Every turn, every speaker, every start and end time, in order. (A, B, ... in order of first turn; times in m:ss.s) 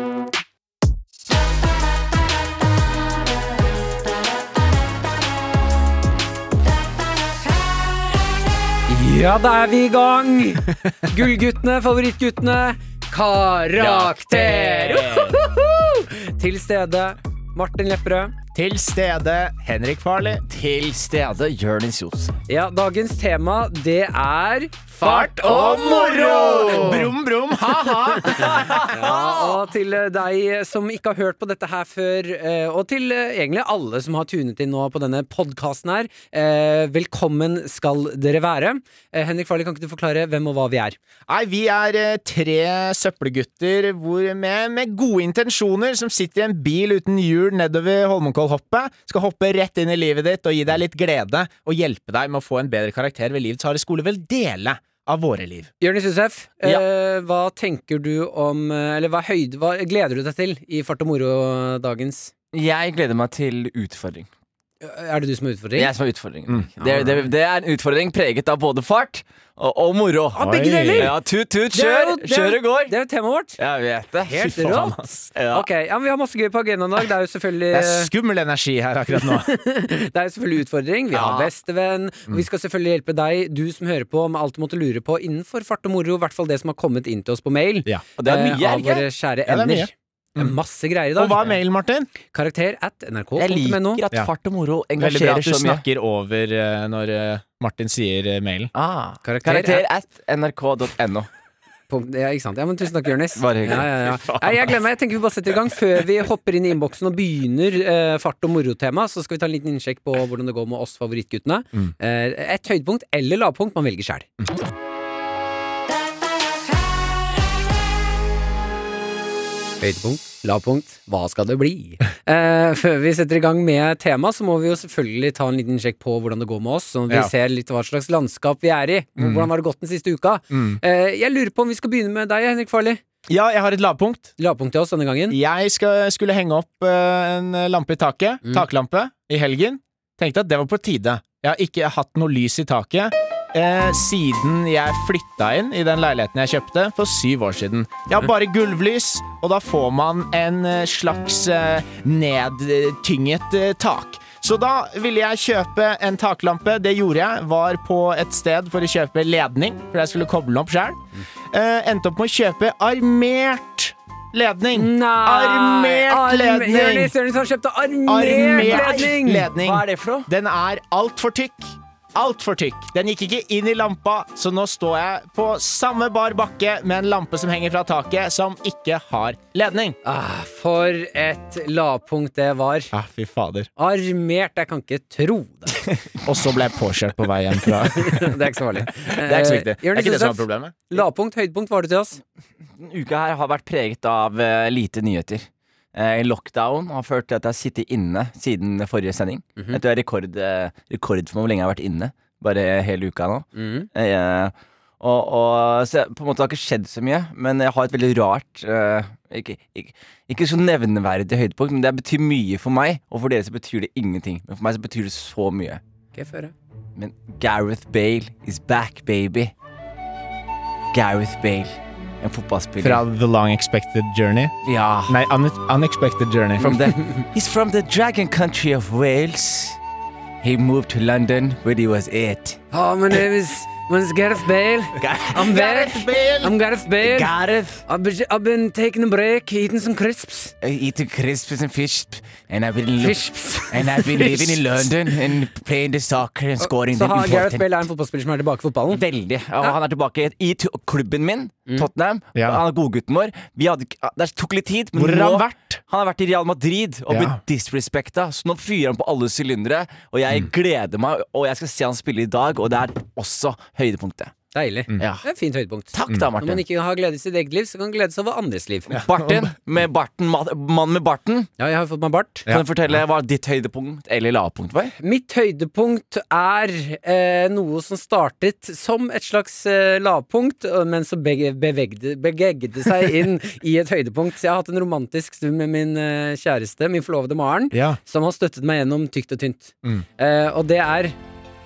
0:08.9-0:18.3 A
0:13.8-0:15.4 B
0:18.5-0:20.4 B
0:20.4-0:22.3 C
0:22.5-0:26.9 A
0:25.0-0:28.6 B
0:25.4-0:27.1 C
0:28.3-0:29.6 C
0:28.4-0:41.0 A
0:41.3-0:55.7 B
0:55.8-1:02.3 A
1:02.5-1:04.3 C
1:04.8-1:05.9 A
1:05.8-1:10.4 C
1:06.5-1:07.2 B
1:10.4-1:11.1 A
1:10.4-1:11.1 B
1:11.0-1:12.9 C
1:11.7-1:13.6 A
1:13.6-1:14.5 C
1:14.3-1:15.3 B
1:14.3-1:18.1 A
1:15.3-1:15.7 C
1:17.7-1:19.5 B
1:19.1-1:31.4 A
1:21.1-1:21.5 C
1:28.2-1:29.0 C
1:29.5-1:30.5 B
1:31.1-1:32.1 B
1:32.2-1:34.0 A
1:33.4-1:35.8 C
1:35.0-1:38.7 B
1:38.7-1:41.3 C
1:39.2-1:39.8 A
1:41.9-1:54.3 A
1:43.4-1:43.9 C
1:44.0-1:44.7 B
1:59.8-2:13.0 A
2:09.2-2:09.5 B
2:10.5-2:10.8 B
2:13.3-2:14.3 B
2:14.4-2:15.4 A
2:15.3-2:41.0 B
2:41.5-2:47.1 B
2:44.7-2:49.5 A
2:48.1-3:00.0 B
2:48.5-2:50.3 C
3:00.0-3:02.9 A
3:02.9-3:03.7 B
3:03.8-3:05.8 A
3:06.2-3:10.8 B
3:07.9-3:12.2 A
3:12.8-3:35.8 C
3:23.5-3:23.9 A
3:36.1-3:36.5 A
3:37.0-3:39.5 C
3:40.9-3:43.0 C
3:42.8-3:44.5 B
3:44.6-3:45.2 C
3:45.1-3:46.8 B
3:46.6-3:49.8 C
3:50.4-3:52.6 C
3:52.7-3:57.3 A
3:55.0-3:56.5 B
3:57.0-3:57.8 C
3:57.8-4:00.5 A
4:00.6-4:07.8 C
4:03.0-4:04.8 A
4:06.6-4:09.0 A
4:08.9-4:24.3 C
4:14.9-4:15.8 B
4:17.1-4:17.4 B
4:24.5-4:29.0 A
4:25.0-4:25.2 C
4:25.9-4:26.6 C
4:28.9-4:29.5 B
4:28.9-4:31.5 C
4:31.6-4:32.5 A
4:32.5-4:34.9 C
4:35.0-4:51.2 A
4:47.7-4:48.0 B